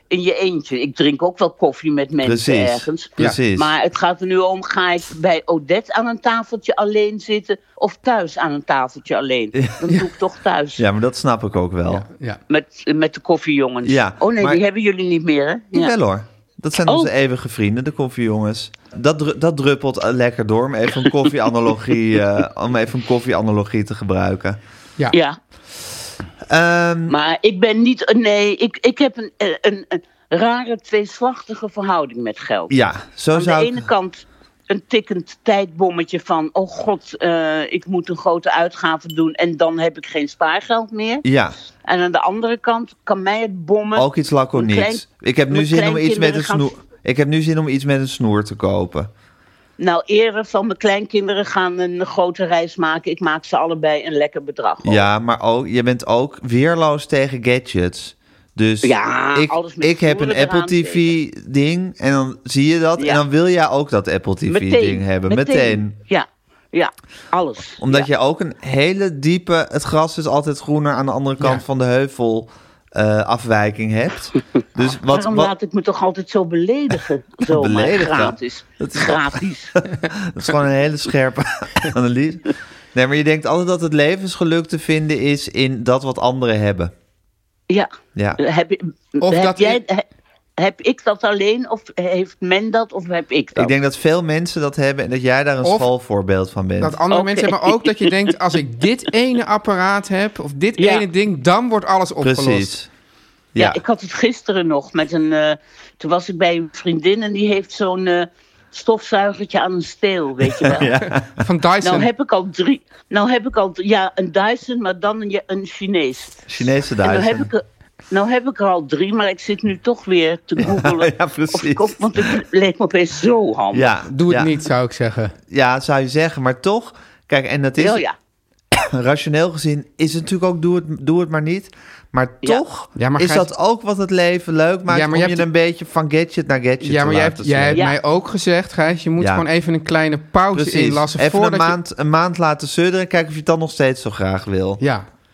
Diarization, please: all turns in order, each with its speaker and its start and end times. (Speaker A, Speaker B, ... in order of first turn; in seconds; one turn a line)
Speaker A: 0.1-10.8
Speaker B: 2.2-3.8
Speaker B: 9.6-9.9
Speaker B: 10.8-12.1
Speaker C: 11.9-12.4
Speaker A: 12.5-15.9
Speaker B: 13.8-14.6
Speaker B: 15.7-24.6
Speaker A: 25.1-25.4
Speaker B: 26.5-27.1
Speaker A: 27.1-32.7
Speaker B: 32.7-33.9
Speaker A: 33.3-41.2
Speaker B: 41.2-41.6
Speaker A: 41.9-46.7
Speaker B: 44.0-49.1
Speaker A: 49.8-55.0
Speaker B: 54.8-66.0
Speaker A: 58.8-61.1
Speaker A: 64.5-68.1
Speaker B: 67.8-75.5
Speaker A: 74.8-79.7
Speaker B: 77.4-79.4
Speaker B: 79.9-86.9
Speaker A: 87.7-90.0
Speaker B: 88.1-88.4
Speaker C: 89.2-89.8
Speaker A: 90.6-93.8
Speaker B: 93.5-97.0
Speaker C: 96.8-102.7
Speaker A: 97.1-98.1
Speaker A: 100.8-101.0
Speaker B: 102.2-102.9
Speaker B: 103.5-103.8
Speaker A: 103.6-110.9
Speaker B: 110.5-111.4
Speaker C: 111.0-112.1
Speaker A: 111.8-116.4
Speaker B: 116.5-117.5
Speaker A: 117.0-123.9
Speaker B: 120.6-122.4
Speaker B: 123.7-124.5
Speaker C: 124.1-125.3
Speaker B: 125.5-128.0
Speaker A: 127.8-128.1
Speaker B: 128.8-137.8
Speaker C: 133.0-133.5
Speaker C: 134.9-135.5
Speaker C: 136.8-141.8
Speaker B: 139.2-139.5
Speaker B: 140.5-144.8
Speaker C: 144.8-145.1